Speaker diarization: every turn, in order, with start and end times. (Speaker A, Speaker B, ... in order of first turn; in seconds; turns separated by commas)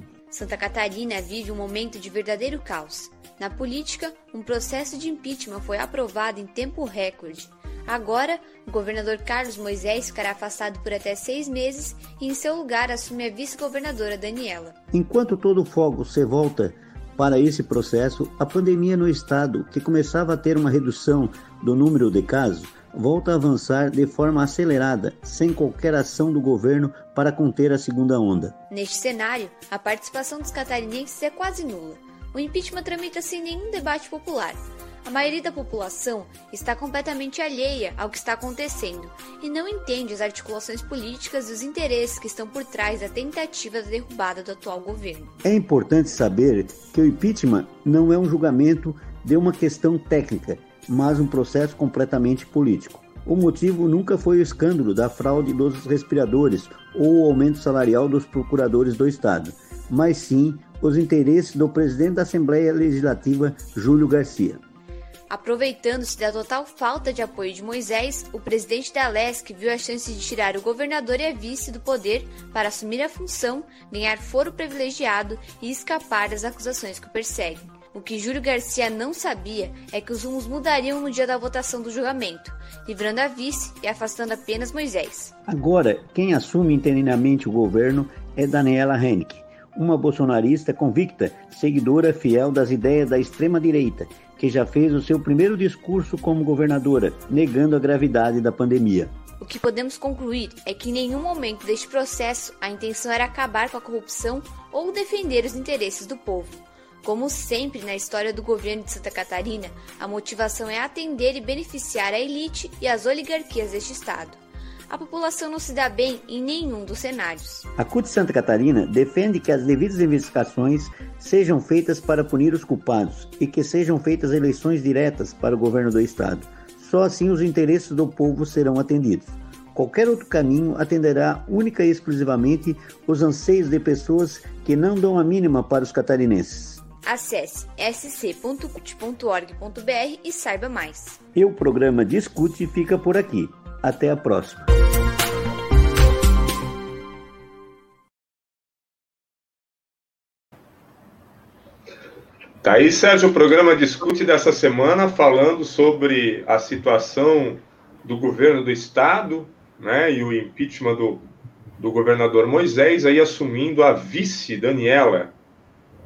Speaker A: 0.3-14.7, Speaker B: 14.9-28.6, Speaker A: 28.7-45.3, Speaker B: 45.4-64.6, Speaker A: 65.3-85.3, Speaker B: 85.5-99.1, Speaker A: 99.4-117.7, Speaker B: 117.8-136.8, Speaker A: 137.0-141.2, Speaker B: 141.3-144.7, Speaker C: 152.6-161.3, Speaker C: 161.8-165.3